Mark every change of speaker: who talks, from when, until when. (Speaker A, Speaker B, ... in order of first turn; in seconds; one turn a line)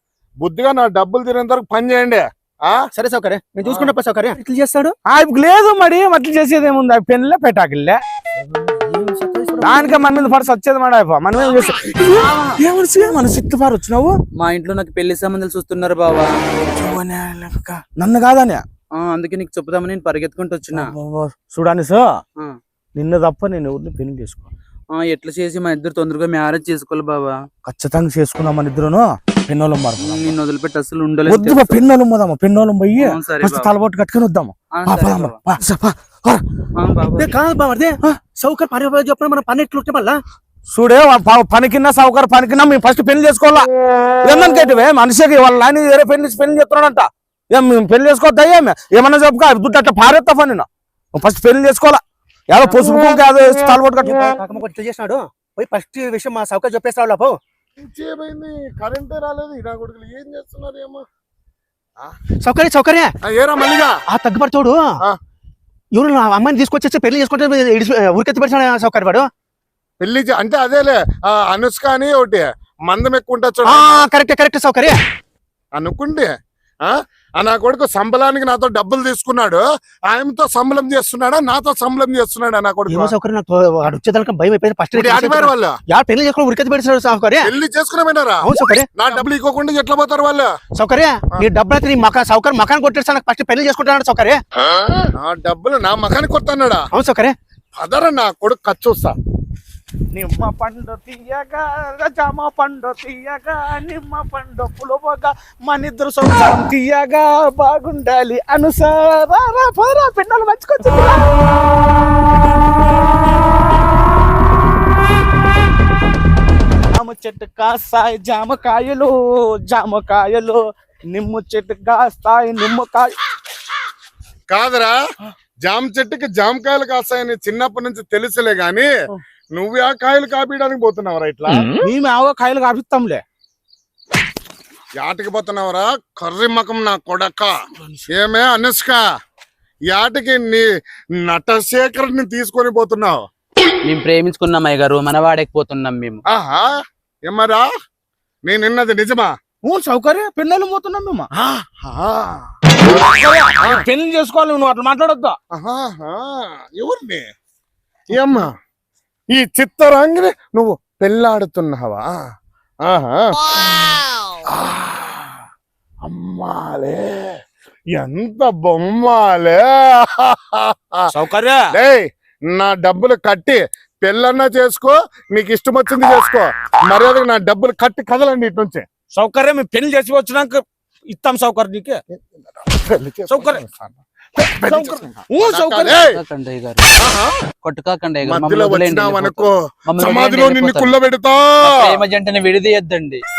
Speaker A: 0.4-2.8
Speaker B: 2.9-5.0
Speaker A: 3.6-3.9
Speaker C: 5.1-8.0
Speaker B: 8.7-9.7
Speaker C: 9.6-14.2
Speaker D: 12.1-12.6
Speaker D: 14.3-16.3
Speaker C: 16.7-18.6
Speaker D: 18.9-20.9
Speaker C: 20.7-22.2
Speaker C: 22.9-24.5
Speaker D: 24.9-27.4
Speaker C: 27.6-30.3
Speaker D: 30.0-31.8
Speaker C: 31.2-36.4
Speaker D: 33.0-33.7
Speaker D: 34.7-35.4
Speaker D: 36.7-37.3
Speaker B: 37.1-40.2
Speaker C: 40.7-43.7
Speaker C: 44.2-54.3
Speaker B: 54.0-57.4
Speaker A: 57.8-61.0
Speaker B: 62.4-63.1
Speaker A: 63.2-63.9
Speaker B: 64.1-64.9
Speaker B: 65.9-69.3
Speaker A: 70.0-74.1
Speaker B: 73.6-75.0
Speaker A: 75.8-76.3
Speaker A: 76.8-83.1
Speaker B: 82.9-87.5
Speaker A: 84.9-85.7
Speaker A: 87.4-88.4
Speaker B: 88.4-89.2
Speaker A: 88.9-90.5
Speaker B: 90.7-94.4
Speaker A: 95.1-96.8
Speaker B: 96.9-97.4
Speaker A: 97.8-99.1
Speaker C: 100.1-111.4
Speaker C: 116.9-123.2
Speaker A: 124.5-125.0
Speaker A: 125.6-128.9
Speaker A: 129.5-131.7
Speaker C: 131.7-133.2
Speaker A: 135.0-137.6
Speaker A: 138.1-139.0
Speaker A: 139.9-140.7
Speaker A: 141.2-143.2
Speaker D: 143.8-146.2
Speaker A: 146.3-147.7
Speaker A: 148.4-149.3
Speaker C: 149.6-151.3
Speaker A: 151.3-153.0
Speaker C: 152.8-155.4
Speaker A: 155.5-157.2
Speaker A: 158.1-158.5
Speaker A: 159.3-162.1
Speaker A: 162.8-163.3
Speaker A: 164.5-165.3
Speaker A: 166.0-167.4
Speaker A: 167.9-171.1
Speaker C: 171.1-171.6
Speaker A: 171.7-178.8
Speaker C: 179.1-182.0
Speaker A: 182.3-186.2
Speaker C: 183.3-183.6
Speaker C: 184.6-186.0
Speaker D: 185.9-186.9
Speaker A: 187.0-187.3
Speaker D: 187.6-190.9
Speaker A: 188.2-191.7
Speaker D: 191.6-193.2